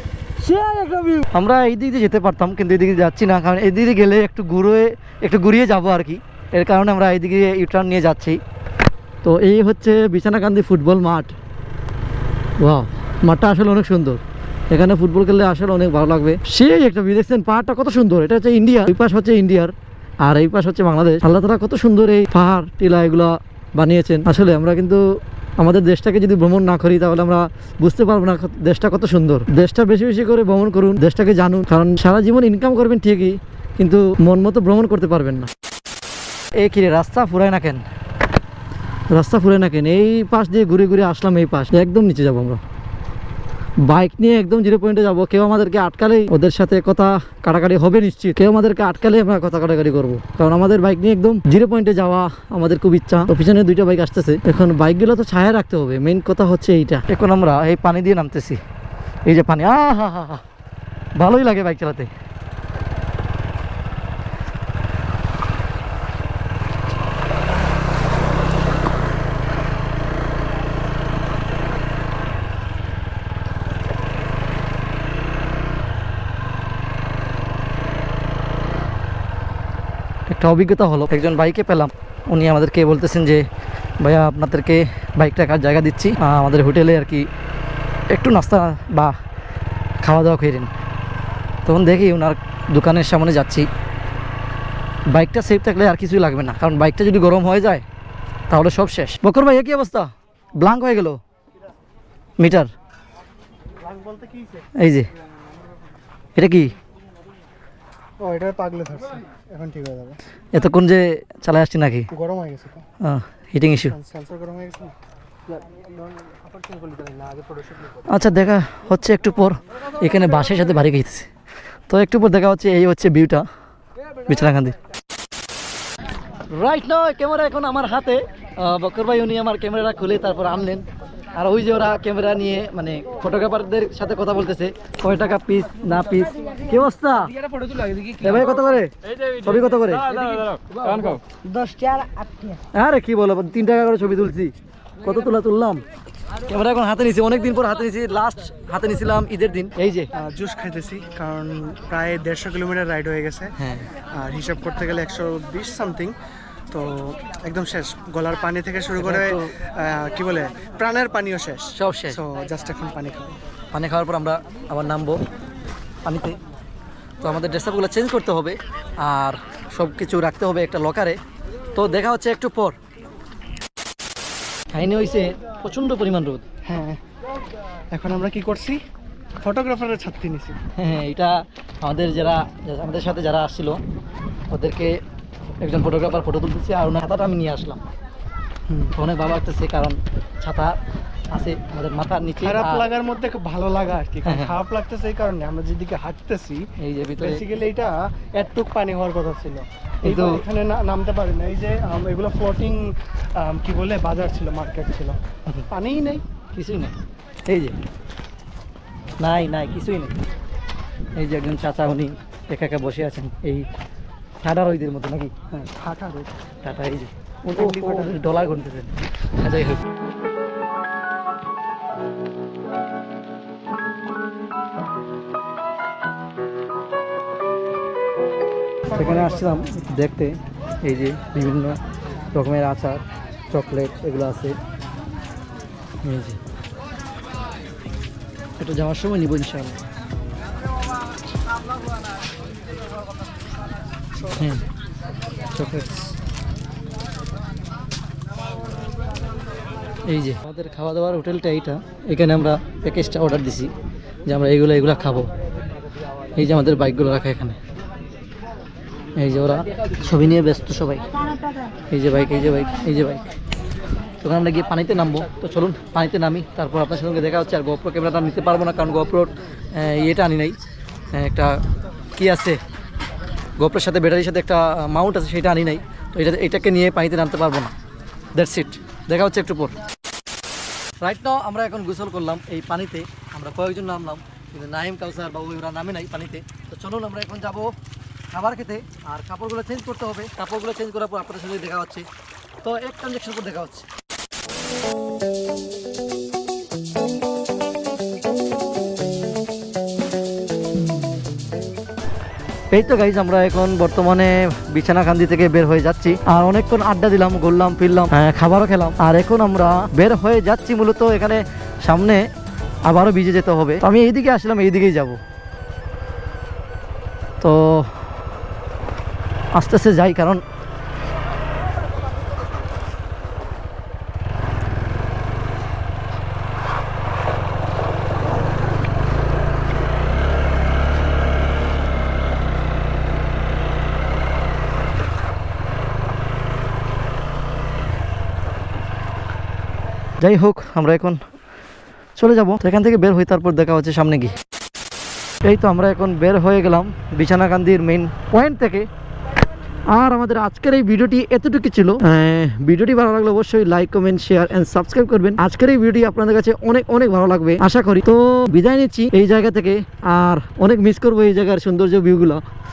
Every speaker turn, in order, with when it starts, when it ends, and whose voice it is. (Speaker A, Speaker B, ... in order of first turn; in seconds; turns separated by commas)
Speaker A: 0.4-8.4, Speaker A: 9.2-11.3, Speaker A: 12.6-25.0, Speaker A: 25.6-35.5, Speaker A: 36.6-37.8, Speaker A: 39.1-42.6, Speaker A: 43.8-58.6, Speaker A: 59.3-60.4, Speaker A: 61.2-62.1, Speaker A: 80.3-83.5, Speaker A: 84.0-87.3, Speaker A: 88.1-89.2, Speaker A: 90.0-90.7, Speaker A: 91.7-93.7, Speaker A: 95.1-97.8, Speaker A: 98.5-101.2, Speaker A: 102.4-102.7, Speaker B: 103.8-104.7, Speaker A: 104.8-105.1, Speaker A: 106.4-106.7, Speaker B: 108.2-110.2, Speaker A: 110.5-112.1, Speaker B: 112.1-112.9, Speaker A: 113.0-114.0, Speaker B: 113.9-115.0, Speaker B: 116.2-117.7, Speaker A: 118.1-121.3, Speaker A: 121.9-123.5, Speaker A: 124.3-124.8, Speaker A: 126.5-137.3, Speaker A: 138.0-141.2, Speaker A: 142.7-145.8, Speaker A: 146.5-150.1, Speaker B: 150.2-156.2, Speaker A: 153.6-153.9, Speaker B: 156.7-163.4, Speaker A: 159.0-159.6, Speaker A: 161.7-162.2, Speaker A: 163.7-165.2, Speaker A: 166.1-166.4, Speaker A: 167.2-171.2, Speaker A: 171.7-172.8, Speaker A: 174.7-176.4, Speaker B: 176.7-177.0, Speaker B: 177.9-178.8, Speaker B: 179.4-180.6, Speaker A: 180.8-183.8, Speaker A: 184.5-185.0, Speaker A: 185.6-187.8, Speaker A: 188.8-190.8, Speaker A: 191.3-192.9, Speaker B: 192.4-206.2, Speaker A: 194.2-194.6, Speaker A: 196.8-197.4, Speaker A: 200.0-200.4, Speaker A: 206.5-207.8, Speaker A: 209.2-210.2, Speaker A: 211.2-213.7, Speaker A: 214.4-215.3, Speaker B: 215.5-216.3, Speaker A: 216.6-219.8, Speaker B: 217.6-218.2, Speaker A: 228.9-231.8, Speaker B: 228.9-229.6, Speaker A: 232.3-234.6, Speaker A: 236.0-236.4, Speaker A: 238.6-239.8, Speaker A: 244.3-244.7, Speaker A: 245.4-246.1, Speaker A: 250.1-253.7, Speaker A: 254.3-255.3, Speaker A: 256.3-257.6, Speaker A: 259.2-261.1, Speaker A: 261.9-263.3, Speaker A: 264.2-270.6, Speaker A: 271.1-271.6, Speaker A: 272.2-272.6, Speaker A: 273.6-277.7, Speaker A: 278.3-279.8, Speaker A: 281.0-287.7, Speaker A: 288.3-292.1, Speaker A: 292.6-293.9, Speaker A: 302.7-312.3, Speaker A: 312.9-315.2, Speaker A: 317.4-318.0, Speaker A: 319.5-320.4, Speaker A: 340.2-341.2, Speaker A: 342.2-344.4, Speaker A: 345.4-348.9, Speaker A: 349.9-362.4